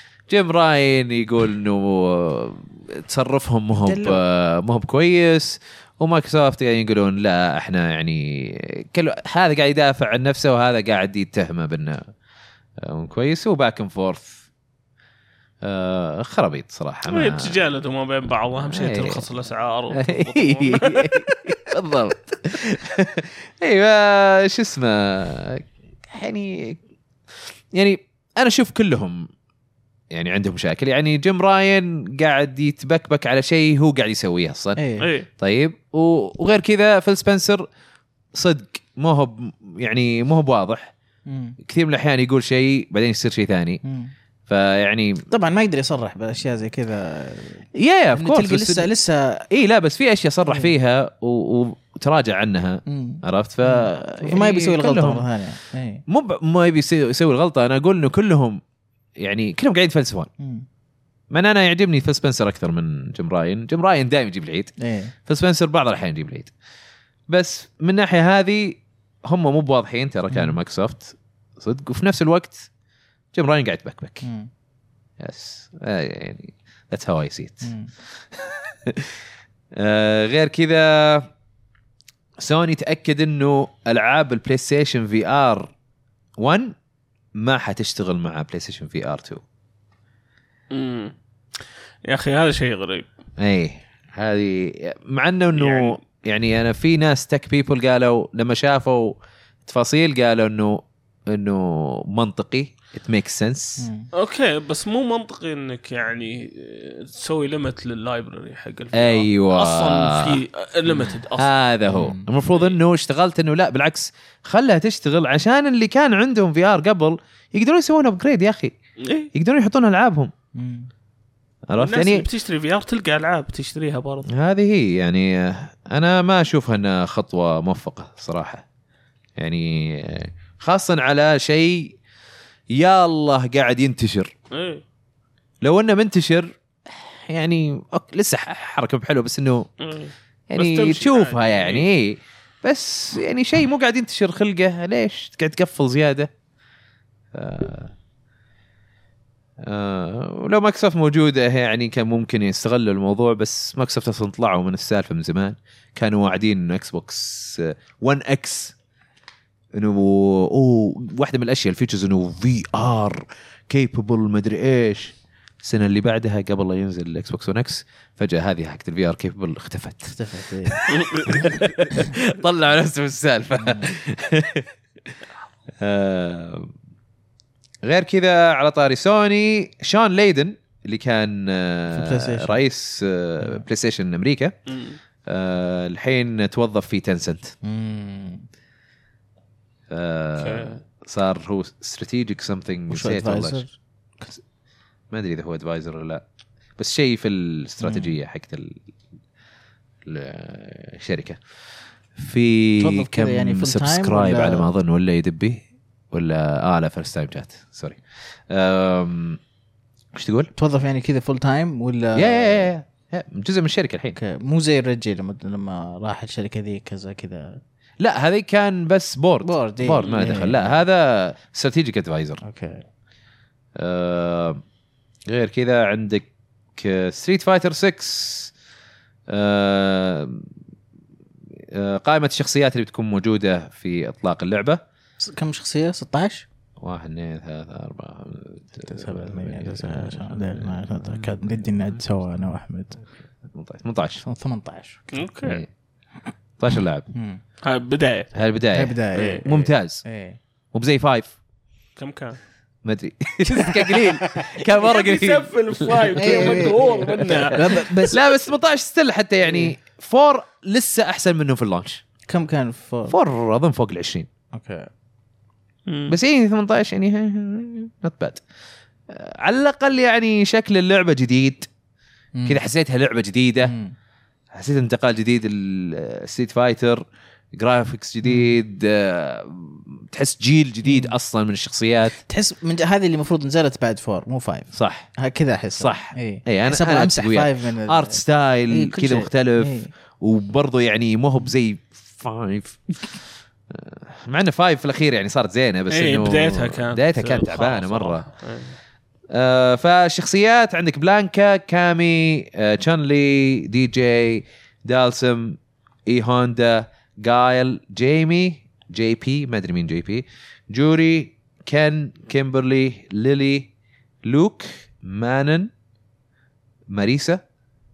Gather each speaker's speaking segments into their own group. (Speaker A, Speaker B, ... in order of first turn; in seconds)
Speaker A: 0.3-12.1, 12.8-14.4, 15.6-17.6, 18.7-19.2, 19.9-26.8, 27.7-29.3, 30.1-34.8, 35.4-37.6, 38.3-40.9, 41.6-43.8, 44.5-45.2, 47.8-48.9, 49.5-55.3, 56.1-58.6, 59.2-60.3, 61.3-64.7, 65.3-66.5, 67.3-72.7, 73.3-74.2, 75.2-77.7, 78.3-79.2, 79.7-81.3, 82.4-85.7, 86.4-86.8, 87.4-89.4, 93.4-103.9, 108.9-118.7, 119.3-120.3, 121.7-122.3, 124.3-128.6, 129.4-132.0, 132.7-134.3, 135.6-139.7, 140.5-146.3, 147.3-147.9, 149.6-158.8, 159.7-175.1, 175.8-176.7, 177.8-184.5, 185.3-187.5, 189.9-193.7, 195.1-196.2, 196.8-198.8, 200.1-201.4, 202.2-209.4, 210.1-210.5, 212.2-214.2, 218.0-222.4, 223.8-224.6, 225.3-228.5, 229.3-230.5, 231.7-234.8, 236.8-242.0, 243.5-244.2, 245.4-245.7, 246.6-247.1, 248.3-250.0, 250.7-251.3, 252.8-262.0, 263.1-264.3, 266.1-268.4, 269.1-271.7, 272.5-273.7, 274.5-277.0, 277.6-282.2, 284.7-285.1, 285.8-298.2, 299.3-313.7, 314.2-315.7, 316.9-317.4
Speaker B: 3.8-4.2, 34.8-35.1, 41.3-41.6, 43.8-44.1, 45.3-49.5, 50.5-50.7, 52.9-56.0, 60.4-60.7, 64.8-65.1, 70.3-70.6, 74.2-74.5, 77.6-77.9, 103.8-104.1, 111.9-112.3, 120.5-120.9, 170.1-172.1, 173.6-173.9, 181.9-182.6, 187.6-188.5, 192.9-194.4, 197.8-198.2, 202.8-204.7, 210.6-212.7, 214.2-217.6, 219.4-220.8, 222.4-222.9, 235.2-236.5, 238.8-243.0, 244.2-245.3, 247.1-247.4, 248.7-250.4, 253.6-254.4, 256.2-258.2, 262.3-263.2, 264.5-264.9, 272.4-272.6, 273.6-273.9, 278.2-278.6, 280.8-281.1, 282.2-289.9
Speaker C: 17.1-21.5, 35.0-35.3, 90.7-91.1, 92.1-93.1, 95.5-96.0, 104.1-111.5, 112.5-112.8, 119.0-119.3, 121.8-124.3, 134.5-134.8, 139.8-141.9, 170.9-171.3, 184.7-185.0, 190.4-190.8, 245.1-245.6, 247.6-248.3, 249.1-249.4, 252.0-252.4, 254.6-257.9, 265.9-266.2, 295.9-298.8